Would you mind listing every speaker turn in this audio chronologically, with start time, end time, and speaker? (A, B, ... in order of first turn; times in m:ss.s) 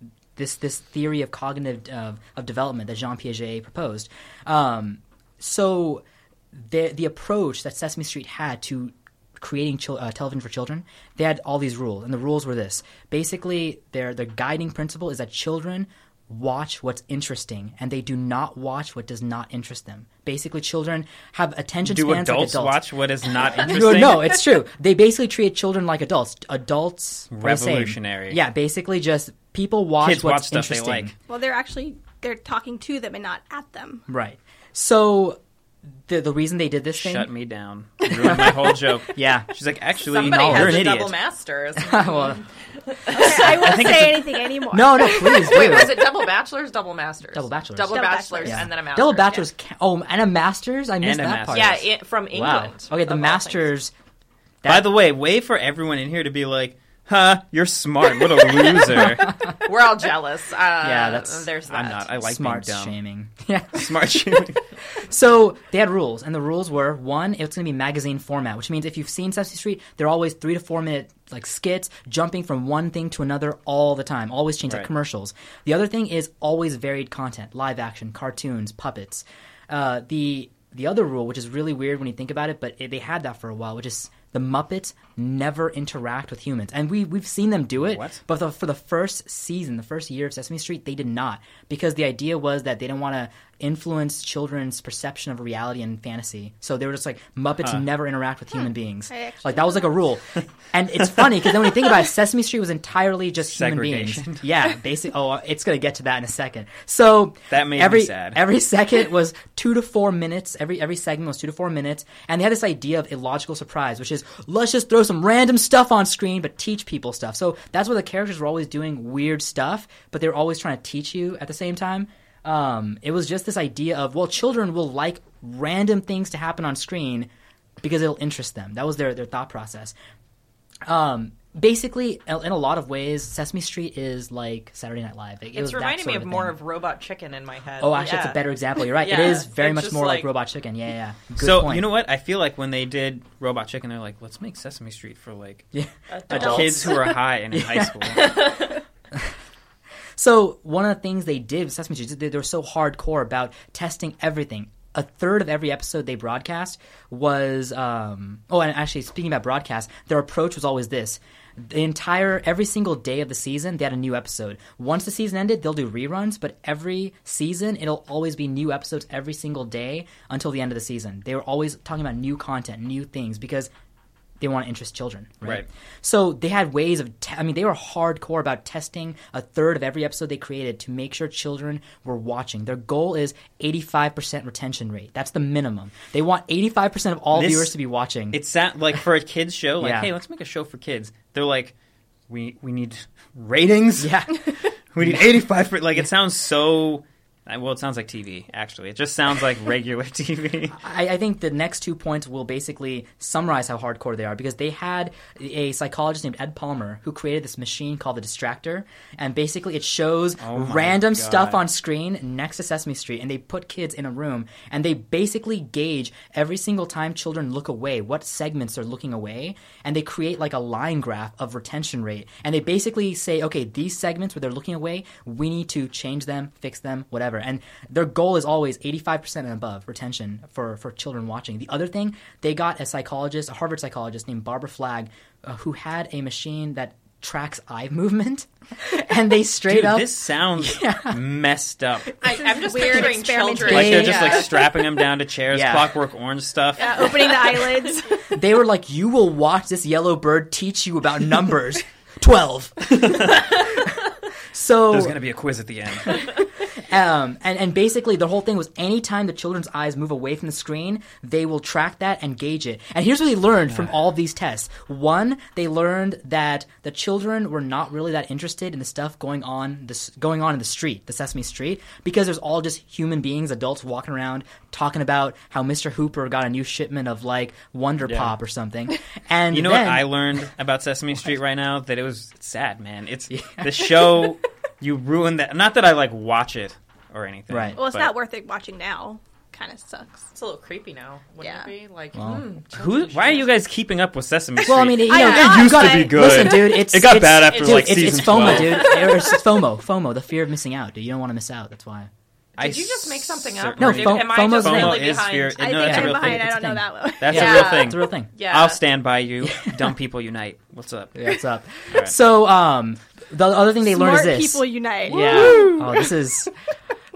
0:00.4-0:22.8 A
0:21.8-0:24.4 B
0:23.4-0:31.1 A
0:27.3-0:28.4 B
0:30.0-0:31.1 B
0:31.3-0:34.0 C
0:34.1-0:35.4 A
0:36.1-0:37.3 A
0:36.9-0:41.1 B
0:38.1-0:39.5 A
0:40.1-0:43.9 D
0:40.1-0:40.9 A
0:41.8-0:42.4 A
0:43.1-0:45.8 C
0:43.2-0:44.3 B
0:44.7-0:46.1 A
0:45.0-0:49.4 D
0:47.3-0:53.9 A
0:47.9-0:48.7 C
0:51.0-0:51.8 B
0:51.5-0:53.7 D
0:54.6-0:54.9 A
0:54.6-0:59.3 B
0:59.6-1:02.0 D
1:00.8-1:04.4 A
1:01.7-1:03.0 B
1:03.7-1:04.6 B
1:05.0-2:07.3 A
1:27.8-1:28.2 B
1:39.1-1:39.9 C
1:43.5-1:44.4 B
1:47.5-1:48.4 B
2:07.8-2:09.9 A
2:10.8-2:16.6 A
2:15.5-2:20.3 D
2:17.8-2:21.8 A
2:21.4-2:25.7 B
2:25.7-2:28.6 A
2:26.1-2:27.1 D
2:26.3-2:28.5 B
2:28.1-2:28.8 D
2:30.2-2:53.7 A
2:54.4-3:08.4 A
3:07.3-3:07.7 B
3:08.3-3:11.7 B
3:09.8-3:10.1 A
3:12.3-3:14.2 B
3:14.0-3:15.3 A
3:14.9-3:20.8 B
3:20.7-4:01.2 A
3:30.4-3:31.6 B
3:59.6-4:02.2 B
4:02.2-4:04.7 D
4:02.2-4:04.4 C
4:03.6-4:04.4 A
4:03.6-4:07.1 B
4:05.5-4:05.9 A
4:06.8-4:08.3 C
4:08.3-4:15.2 A
4:12.9-4:13.5 B
4:14.9-4:16.3 B
4:16.0-4:40.1 A
4:38.0-4:38.3 B
4:39.5-4:48.1 B
4:43.3-4:44.0 A
4:47.5-4:47.8 A
4:47.8-4:50.3 C
4:50.3-4:53.5 D
4:51.4-4:51.7 C
4:52.1-4:52.4 A
4:52.7-4:58.9 B
4:54.6-5:02.1 A
4:55.0-4:56.5 C
4:57.5-4:59.3 D
5:02.6-5:06.5 B
5:02.6-5:05.6 D
5:03.8-5:05.2 A
5:05.6-5:07.6 C
5:05.8-5:08.3 A
5:07.2-5:11.3 B
5:07.3-5:08.8 D
5:09.4-5:09.7 A
5:11.1-5:16.5 A
5:13.8-5:16.1 C
5:15.1-5:15.8 D